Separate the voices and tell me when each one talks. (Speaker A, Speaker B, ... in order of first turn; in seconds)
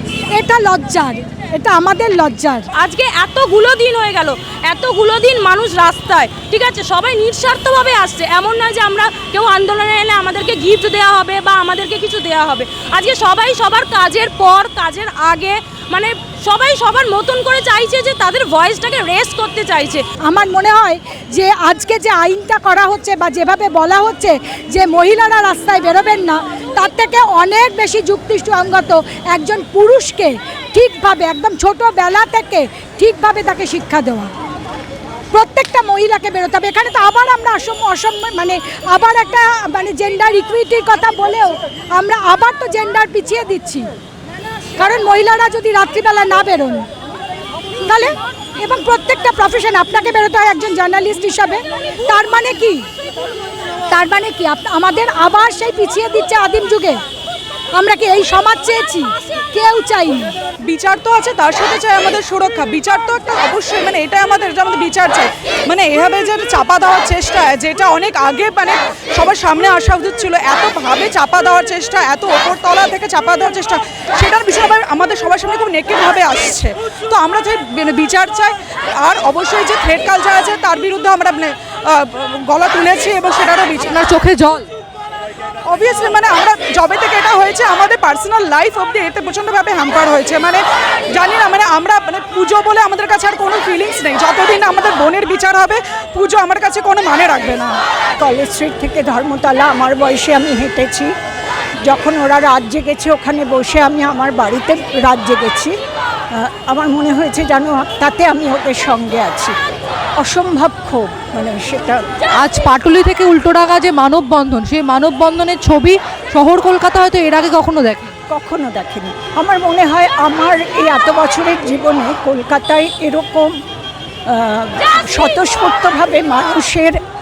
Speaker A: 0.3-2.7, 20.2-34.3, 35.3-43.9, 44.8-46.9, 47.8-52.9, 53.9-57.0, 57.7-60.3
Speaker B: 2.8-20.0
Speaker C: 60.7-84.0, 85.6-90.6, 91.1-97.7
Speaker D: 83.8-84.7, 112.4-118.1
Speaker E: 98.2-101.1, 101.8-105.7, 106.3-109.5, 110.2-112.0, 118.3-123.6, 124.3-127.0